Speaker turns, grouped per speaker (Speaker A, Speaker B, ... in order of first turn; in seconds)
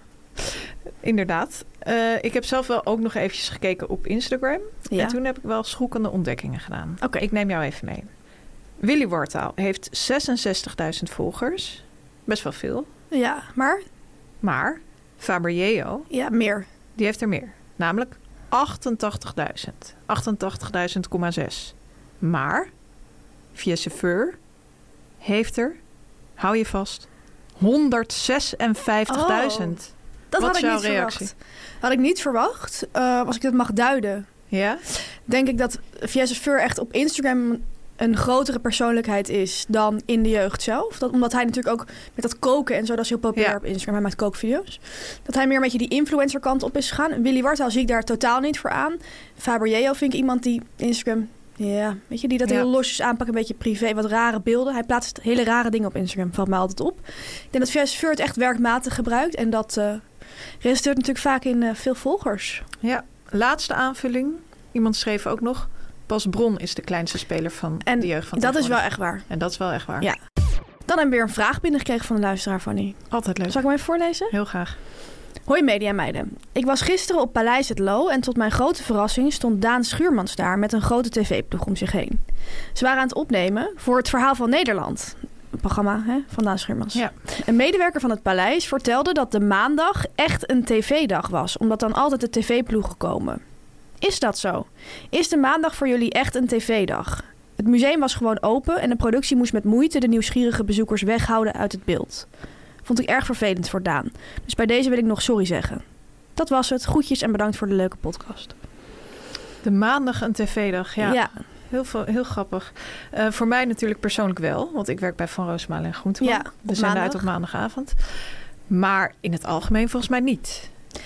Speaker A: 0.4-8.1, 8.8-12.9, 14.4-16.1, 17.0-22.7, 23.5-24.4, 25.2-25.8, 26.4-27.1, 27.6-31.3, 34.5-34.8, 62.8-70.1, 73.1-73.6, 74.3-74.8, 109.6-118.1, 118.7-120.7
Speaker B: 4.9-5.2, 13.1-13.8, 16.1-16.7, 29.1-29.8, 30.3-34.3, 35.3-60.0, 60.6-62.6, 67.8-69.2, 70.9-74.3, 75.5-82.2, 82.8-93.4, 94.0-102.3, 102.8-105.8, 106.4-108.5, 111.0-111.3, 116.2-117.2